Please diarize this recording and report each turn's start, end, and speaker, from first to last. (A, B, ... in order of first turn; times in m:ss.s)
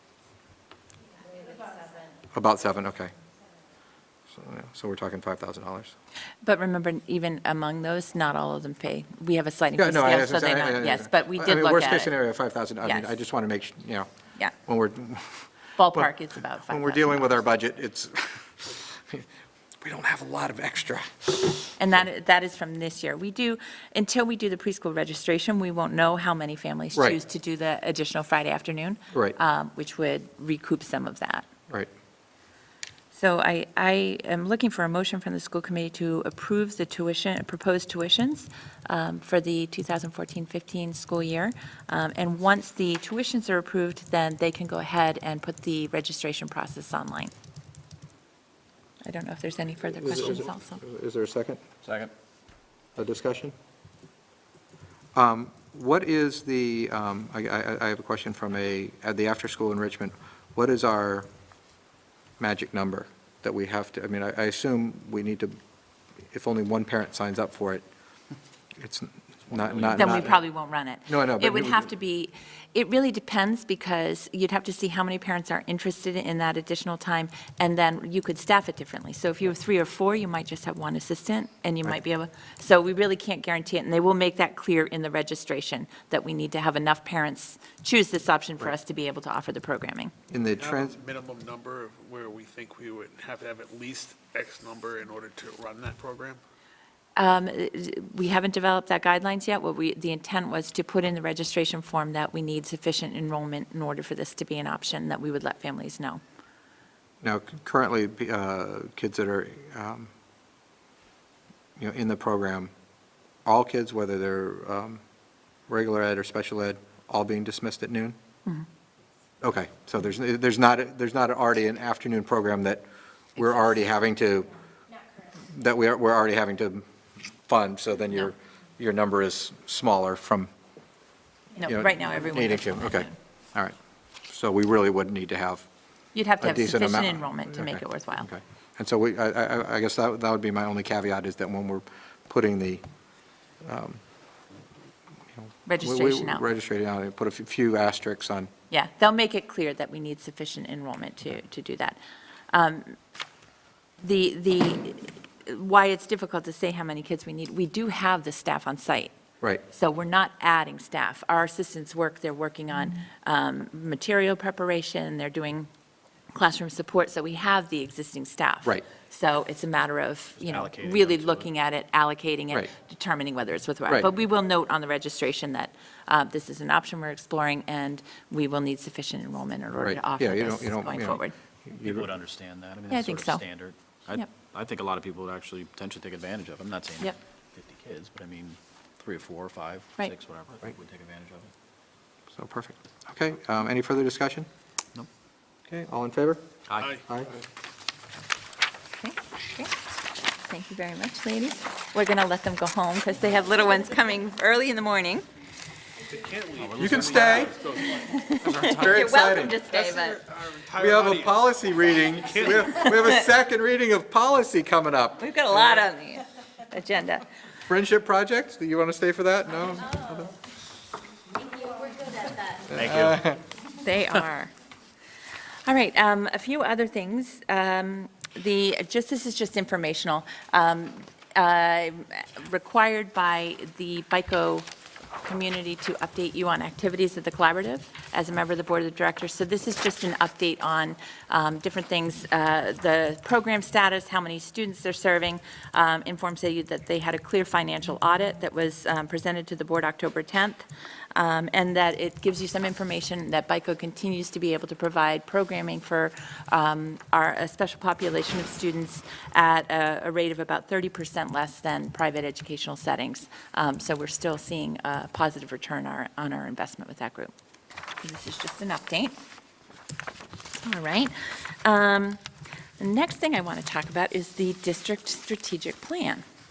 0:01.5-0:01.8 A
0:02.3-0:03.1 B
0:04.3-0:05.9 B
0:06.4-0:12.1 A
0:09.8-0:14.1 B
0:12.8-0:13.1 A
0:14.6-0:16.1 B
0:15.8-0:17.4 A
0:16.6-0:19.3 B
0:19.8-0:21.8 B
0:21.8-0:31.5 A
0:33.1-0:47.3 A
0:49.0-0:50.8 A
0:50.0-0:51.6 B
0:51.8-0:52.1 C
0:53.0-0:53.5 B
0:55.1-1:01.3 B
1:02.4-1:05.6 B
1:06.3-1:07.8 B
1:08.8-1:10.4 B
1:09.7-1:10.2 C
1:09.9-1:30.1 A
1:11.1-1:11.9 B
1:30.3-1:31.0 B
1:30.6-1:36.4 D
1:37.2-1:46.2 A
1:47.2-1:50.1 B
1:51.8-1:52.7 B
1:53.4-1:55.0 B
1:55.7-1:58.2 B
1:59.4-2:02.8 B
2:03.3-2:04.5 B
2:05.5-2:06.8 B
2:07.4-2:10.5 B
2:11.6-2:13.1 A
2:11.6-2:13.7 B
2:14.3-2:15.7 B
2:16.1-2:18.3 A
2:16.4-2:22.8 B
2:23.6-2:24.0 B
2:25.4-2:28.5 B
2:25.6-2:26.4 A
2:28.7-2:32.0 A
2:32.5-2:33.0 A
2:34.0-2:39.1 A
2:39.7-2:45.7 A
2:46.3-3:01.3 A
2:50.4-2:51.5 C
2:59.8-3:02.0 B
3:01.8-3:11.5 C
3:02.9-3:03.6 A
3:12.3-3:14.5 B
3:15.7-3:16.4 B
3:16.7-3:17.0 C
3:17.0-3:17.4 B
3:19.0-3:19.7 A
3:20.4-3:25.2 A
3:26.1-3:28.3 D
3:26.6-3:27.5 C
3:26.8-3:27.5 B
3:28.1-3:30.2 A
3:28.3-3:29.6 B
3:29.7-3:33.1 D
3:30.8-3:35.2 B
3:32.8-3:33.3 A
3:35.2-3:37.3 A
3:37.7-3:40.3 B
3:41.8-3:42.3 A
3:42.7-3:43.4 B
3:42.7-3:43.2 C
3:43.8-3:44.5 A
3:45.6-3:54.7 A
3:55.2-4:27.3 A
4:28.0-4:29.2 A
4:30.6-4:32.2 A
4:32.8-4:36.2 A